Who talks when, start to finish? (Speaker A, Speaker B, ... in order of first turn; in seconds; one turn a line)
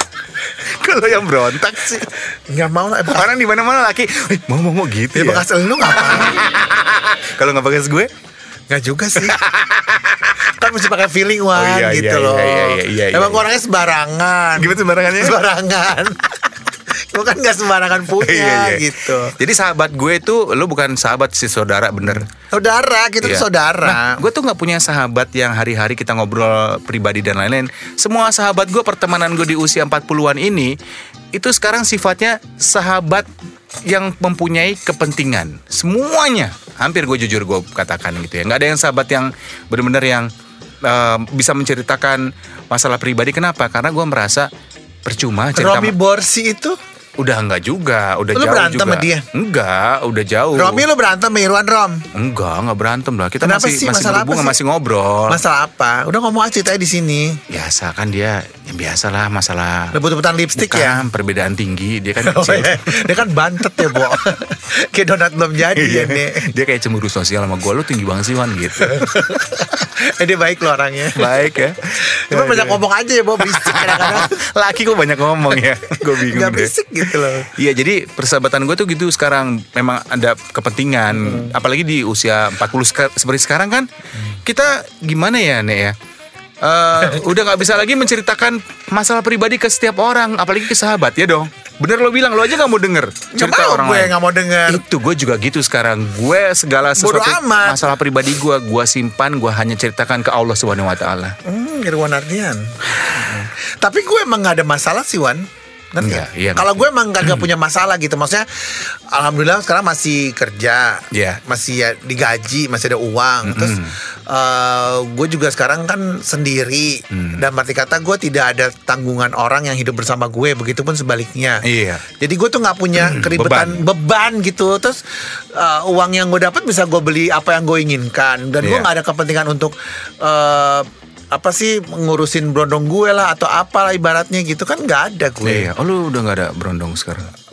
Speaker A: 0.5-2.1
Speaker B: 2.0-3.3
Speaker A: 3.1-5.5
Speaker B: 5.1-6.5
Speaker A: 6.1-8.1
Speaker B: 8.7-9.4
Speaker A: 9.2-10.5
Speaker B: 10.4-19.3
Speaker A: 11.5-13.5
Speaker A: 14.6-15.4
Speaker A: 18.2-22.3
Speaker B: 22.1-24.2
Speaker A: 23.2-30.8
Speaker A: 31.3-33.3
Speaker A: 33.9-40.3
Speaker A: 40.8-44.5
Speaker A: 45.0-46.0
Speaker B: 45.5-46.8
Speaker A: 47.2-50.9
Speaker B: 48.3-49.3
Speaker B: 50.5-52.0
Speaker A: 52.1-55.4
Speaker B: 53.4-54.6
Speaker B: 55.3-57.4
Speaker A: 57.5-60.0
Speaker B: 59.9-61.1
Speaker A: 60.6-63.1
Speaker B: 62.2-66.5
Speaker A: 65.7-69.2
Speaker B: 68.8-71.4
Speaker A: 71.2-72.8
Speaker B: 72.0-74.4
Speaker A: 73.4-86.0
Speaker B: 76.0-77.5
Speaker B: 81.1-81.5
Speaker A: 86.6-94.1
Speaker B: 93.3-94.8
Speaker A: 94.7-101.4
Speaker B: 97.0-97.8
Speaker B: 101.5-135.7
Speaker A: 106.0-107.4
Speaker A: 111.1-111.4
Speaker A: 113.5-114.0
Speaker A: 117.1-117.5
Speaker A: 121.6-122.0
Speaker A: 123.0-123.8
Speaker A: 128.6-128.9
Speaker A: 135.4-137.3